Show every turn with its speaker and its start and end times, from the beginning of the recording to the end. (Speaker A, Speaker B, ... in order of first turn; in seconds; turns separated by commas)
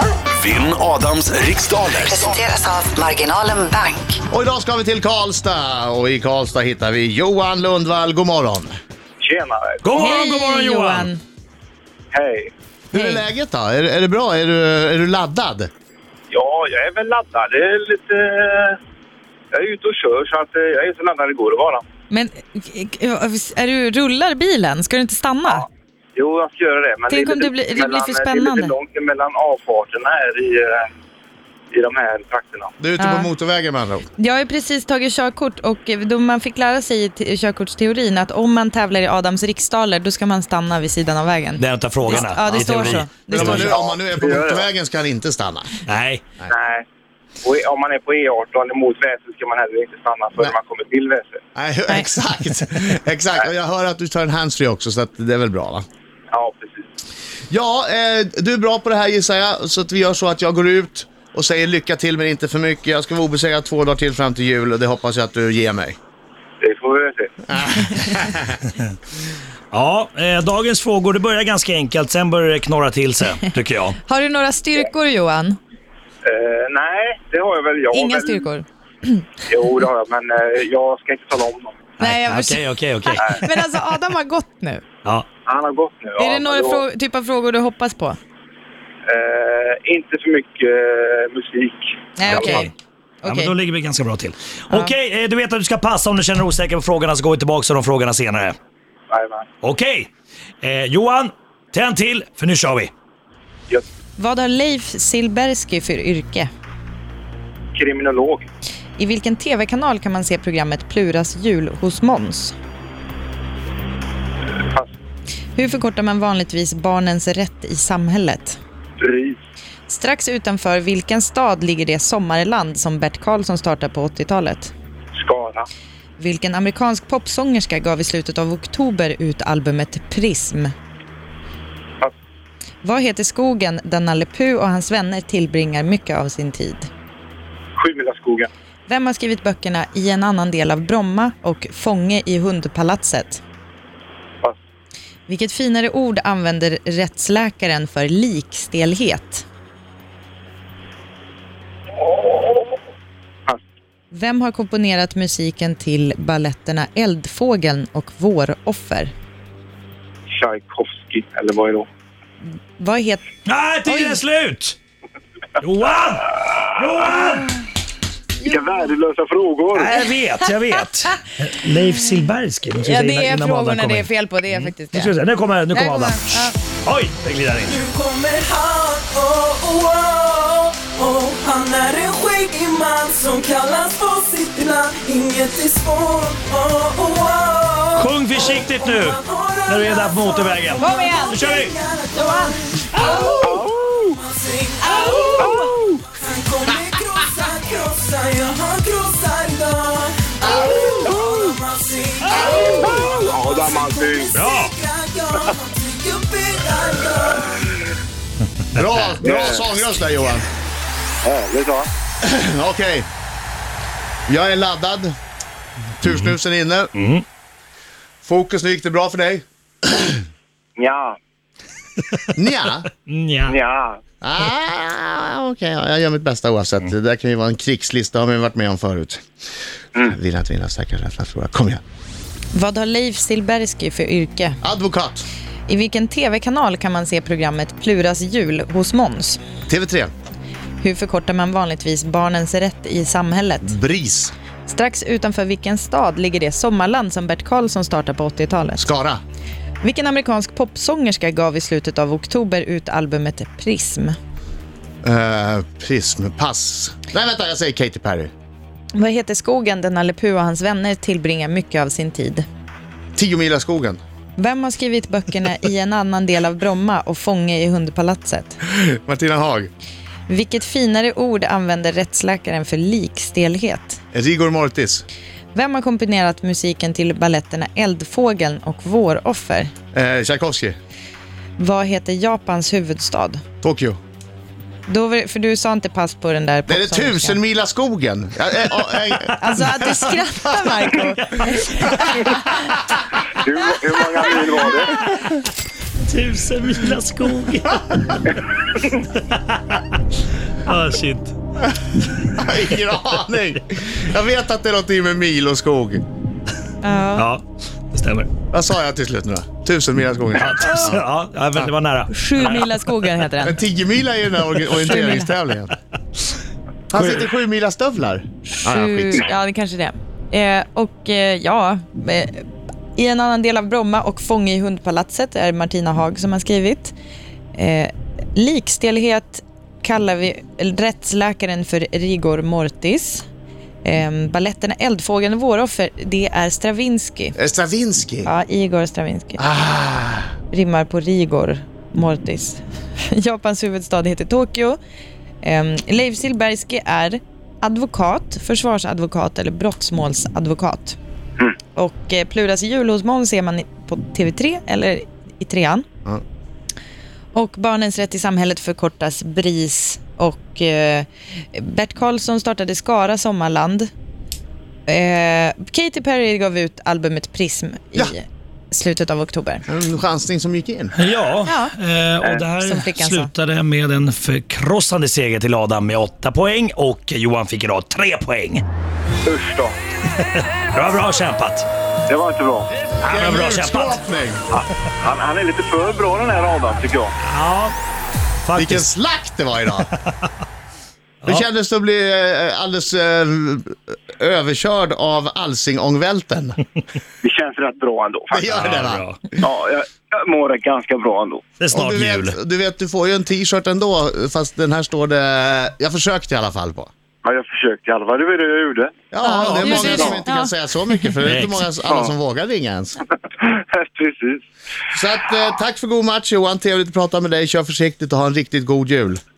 Speaker A: 0.4-2.5, Speaker B: 2.0-4.2, Speaker C: 4.3-8.8, Speaker D: 9.2-9.8, Speaker E: 9.8-11.1, Speaker F: 9.9-11.2, Speaker D: 12.1-12.5, Speaker C: 12.9-15.7, Speaker F: 12.9-13.2, Speaker D: 16.3-18.8, Speaker D: 19.5-21.8, Speaker F: 22.1-25.6, Speaker D: 25.5-30.9, Speaker F: 27.1-28.8, Speaker D: 31.7-32.7, Speaker C: 32.8-34.1, Speaker F: 33.0-33.3, Speaker F: 34.2-43.7, Speaker E: 41.6-43.6, Speaker C: 43.3-45.7, Speaker D: 43.5-44.7, Speaker E: 45.9-46.3, Speaker D: 46.5-46.9, Speaker D: 47.4-51.4, Speaker C: 51.6-55.9, Speaker D: 56.3-56.9, Speaker C: 57.5-66.0, Speaker D: 66.6-67.4, Speaker C: 67.5-68.6, Speaker E: 69.7-74.0, Speaker F: 74.1-75.6, Speaker D: 76.2-78.5, Speaker F: 77.9-79.2, Speaker D: 79.5-81.9, Speaker E: 82.0-83.5, Speaker F: 82.0-84.8, Speaker D: 85.5-86.8, Speaker F: 86.2-88.2, Speaker D: 89.1-92.7, Speaker F: 92.2-93.6, Speaker E: 92.2-92.7, Speaker E: 93.2-98.6, Speaker F: 94.7-95.0, Speaker D: 99.1-99.5, Speaker E: 99.6-100.1, Speaker E: 100.6-102.9, Speaker F: 104.2-106.5, Speaker D: 107.8-108.5, Speaker F: 109.0-112.5, Speaker D: 114.6-114.9, Speaker F: 115.6-118.6, Speaker D: 119.0-119.4, Speaker F: 119.9-124.7, Speaker D: 125.2-125.7, Speaker F: 126.2-130.7, Speaker F: 132.8-136.9, Speaker D: 137.8-138.5, Speaker F: 138.9-143.4, Speaker F: 145.3-149.4, Speaker D: 152.0-152.7, Speaker F: 154.1-159.1, Speaker D: 160.3-161.9, Speaker F: 162.4-163.2, Speaker E: 163.5-164.8, Speaker F: 163.8-164.2, Speaker E: 165.6-167.6, Speaker F: 168.4-168.8, Speaker D: 168.4-170.0, Speaker E: 169.7-177.7, Speaker F: 172.8-175.1, Speaker F: 175.7-176.6, Speaker G: 177.7-207.8, Speaker E: 188.0-191.7, Speaker F: 190.8-191.4, Speaker F: 192.1-192.6, Speaker D: 193.4-193.9, Speaker F: 194.9-195.7, Speaker D: 195.4-196.0, Speaker D: 201.0-201.3, Speaker D: 202.6-204.3, Speaker E: 204.3-204.7, Speaker C: 208.7-210.4, Speaker E: 208.8-209.2, Speaker D: 209.2-209.7, Speaker D: 211.2-211.9, Speaker C: 212.2-213.1, Speaker C: 214.3-215.2, Speaker C: 216.0-216.9, Speaker E: 216.1-216.3, Speaker E: 217.0-217.2, Speaker C: 218.2-220.2, Speaker D: 220.8-221.2, Speaker C: 222.4-222.9, Speaker E: 223.1-223.6, Speaker D: 223.5-224.0, Speaker C: 224.2-229.2, Speaker C: 230.0-231.8, Speaker F: 232.5-234.6, Speaker C: 234.6-235.3, Speaker F: 235.7-239.4, Speaker C: 239.7-240.1, Speaker F: 240.8-243.7, Speaker C: 243.6-244.3, Speaker F: 244.7-248.8, Speaker C: 248.8-249.2, Speaker F: 249.8-254.2, Speaker C: 255.0-258.3, Speaker F: 258.9-262.4, Speaker C: 263.2-264.0, Speaker F: 264.4-268.6, Speaker C: 268.7-269.7, Speaker F: 270.3-274.0, Speaker C: 274.1-275.1, Speaker F: 275.5-279.7, Speaker C: 279.9-280.8, Speaker F: 281.6-283.4, Speaker C: 283.6-284.0, Speaker F: 284.9-287.4, Speaker C: 286.7-289.7, Speaker F: 289.4-292.2, Speaker C: 292.1-292.4, Speaker D: 293.2-295.0, Speaker E: 294.9-295.4, Speaker E: 296.0-299.8, Speaker E: 300.6-301.4, Speaker C: 302.4-306.0, Speaker F: 306.8-307.3, Speaker E: 307.2-308.3, Speaker C: 308.5-311.1, Speaker E: 310.4-312.7, Speaker F: 312.1-313.6, Speaker C: 313.4-315.7, Speaker F: 314.7-315.3, Speaker C: 316.9-319.3, Speaker F: 318.6-326.9, Speaker F: 327.6-333.2, Speaker F: 333.8-337.4, Speaker C: 337.4-338.3, Speaker F: 338.2-339.4, Speaker C: 339.4-340.3, Speaker F: 340.5-344.8, Speaker F: 345.4-351.0, Speaker F: 351.8-355.9, Speaker F: 357.3-363.9, Speaker F: 364.9-369.6, Speaker C: 369.7-371.0, Speaker E: 371.0-378.6, Speaker F: 371.4-371.7, Speaker F: 372.6-373.3, Speaker D: 379.2-379.8, Speaker E: 380.1-381.7, Speaker D: 382.1-382.7, Speaker C: 383.0-384.4, Speaker E: 383.1-384.0, Speaker D: 384.5-387.1, Speaker E: 387.2-387.7, Speaker E: 388.4-388.9, Speaker C: 388.6-389.9, Speaker E: 389.9-390.3, Speaker C: 391.2-396.6, Speaker D: 397.2-398.4, Speaker C: 398.3-399.5, Speaker E: 398.5-399.2, Speaker D: 399.4-401.4, Speaker E: 401.6-402.4, Speaker C: 401.7-406.9, Speaker D: 407.2-410.2, Speaker C: 409.1-413.0, Speaker F: 409.2-411.1, Speaker E: 411.2-411.6, Speaker D: 413.3-414.5, Speaker C: 414.9-419.2